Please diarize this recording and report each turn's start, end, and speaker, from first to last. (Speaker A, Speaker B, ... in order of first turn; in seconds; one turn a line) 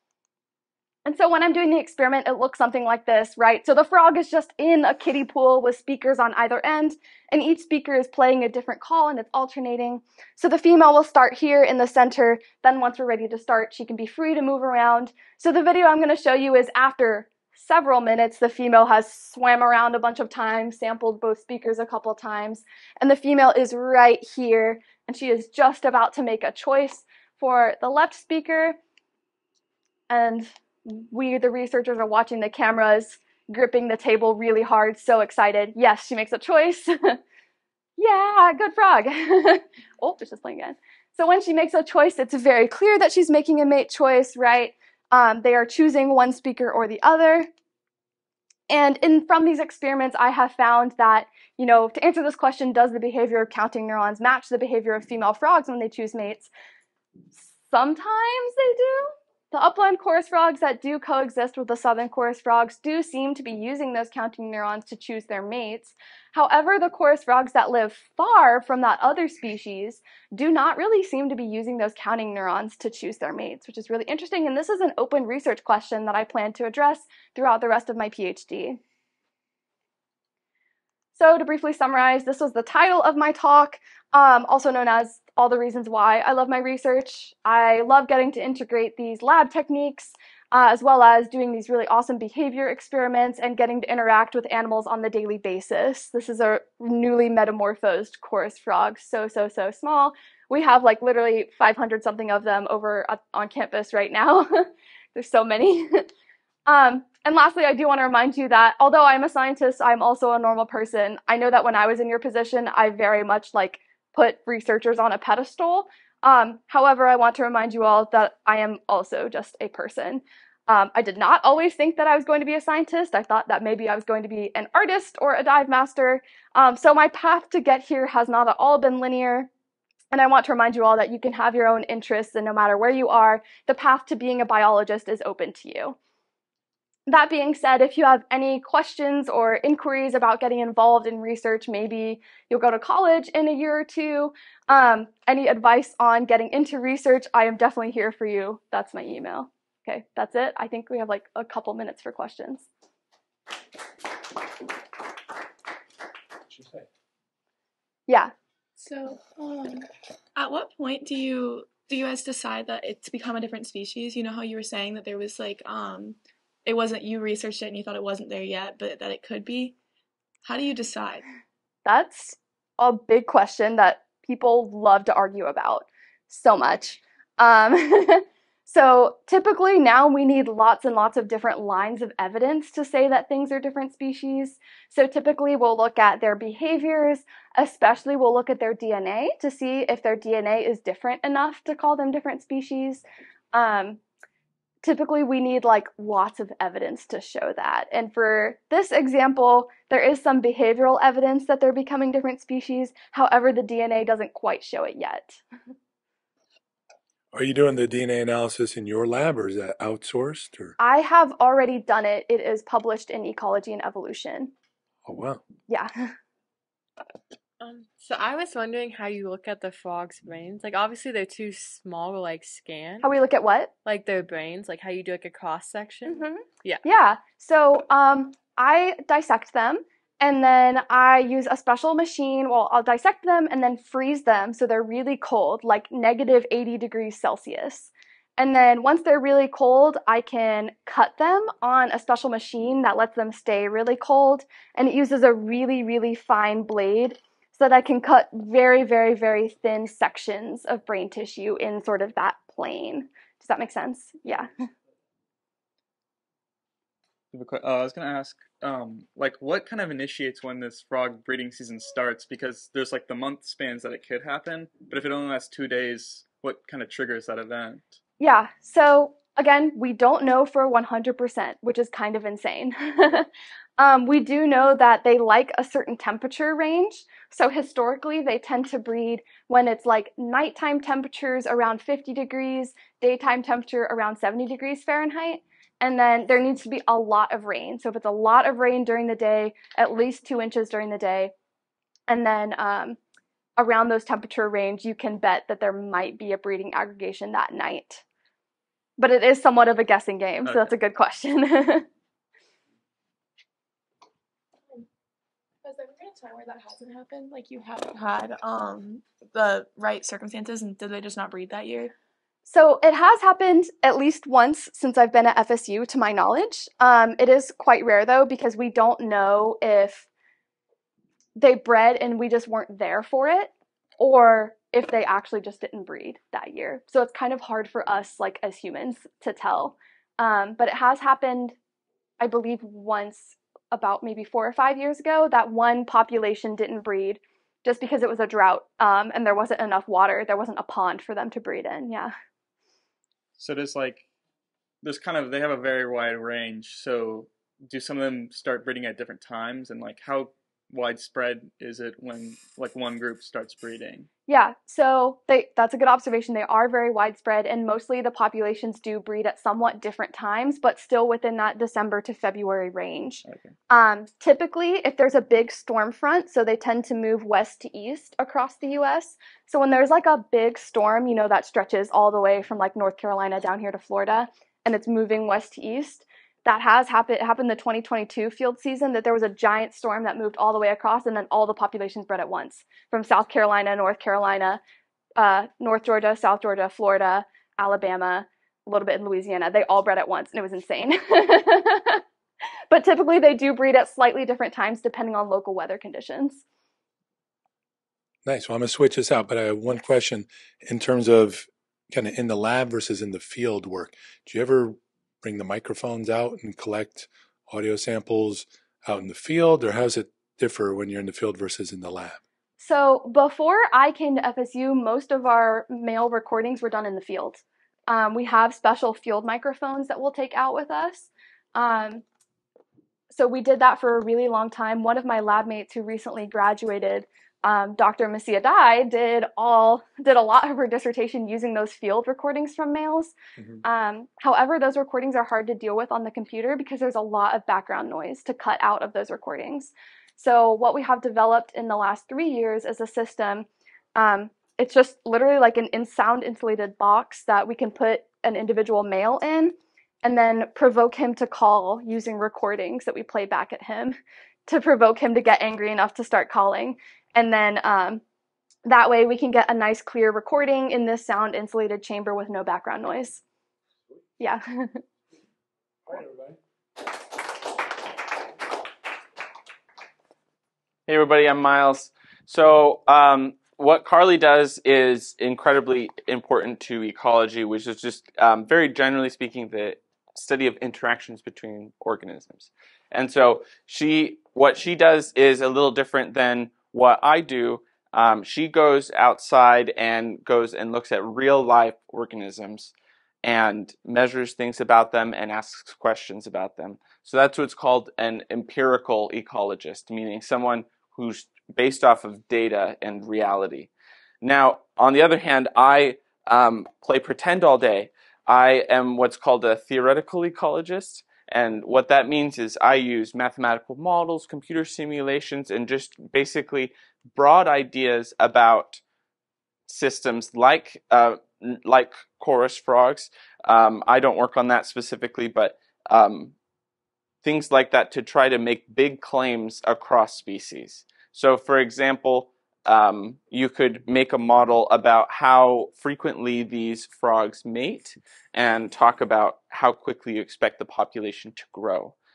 Speaker A: 1.1-28.8
Speaker A: 30.1-37.2
Speaker A: 38.0-47.5
Speaker A: 48.7-56.5
Speaker A: 57.4-78.8
Speaker A: 81.1-106.1
Speaker A: 106.7-129.5
Speaker A: 130.1-135.9
Speaker A: 137.1-152.7
Speaker B: 156.5-156.8
Speaker C: 158.8-169.7
Speaker C: 170.4-171.2
Speaker A: 171.8-194.0
Speaker A: 194.8-205.4
Speaker B: 207.3-210.7
Speaker A: 210.8-214.5
Speaker B: 215.1-215.4
Speaker A: 215.7-216.1
Speaker D: 217.6-223.1
Speaker A: 223.0-223.7
Speaker D: 223.8-226.8
Speaker A: 226.1-254.5
Speaker E: 257.3-268.0
Speaker A: 268.2-291.3
Speaker A: 292.1-293.0
Speaker A: 293.6-298.0
Speaker A: 299.0-301.9
Speaker E: 300.4-300.7
Speaker C: 305.6-311.9
Speaker A: 312.4-320.1
Speaker A: 321.4-331.5
Speaker A: 332.2-342.1
Speaker E: 343.4-344.1
Speaker E: 344.8-354.1
Speaker A: 354.3-384.6
Speaker E: 363.2-363.5
Speaker A: 385.2-392.0
Speaker A: 392.7-396.4
Speaker B: 398.2-412.2
Speaker A: 412.6-422.0
Speaker A: 423.1-453.9
Speaker A: 454.5-458.0
Speaker A: 458.6-463.2
Speaker A: 464.2-464.8
Speaker F: 470.9-492.7
Speaker F: 493.2-503.7
Speaker F: 504.2-518.8
Speaker F: 519.7-526.3
Speaker F: 527.2-541.9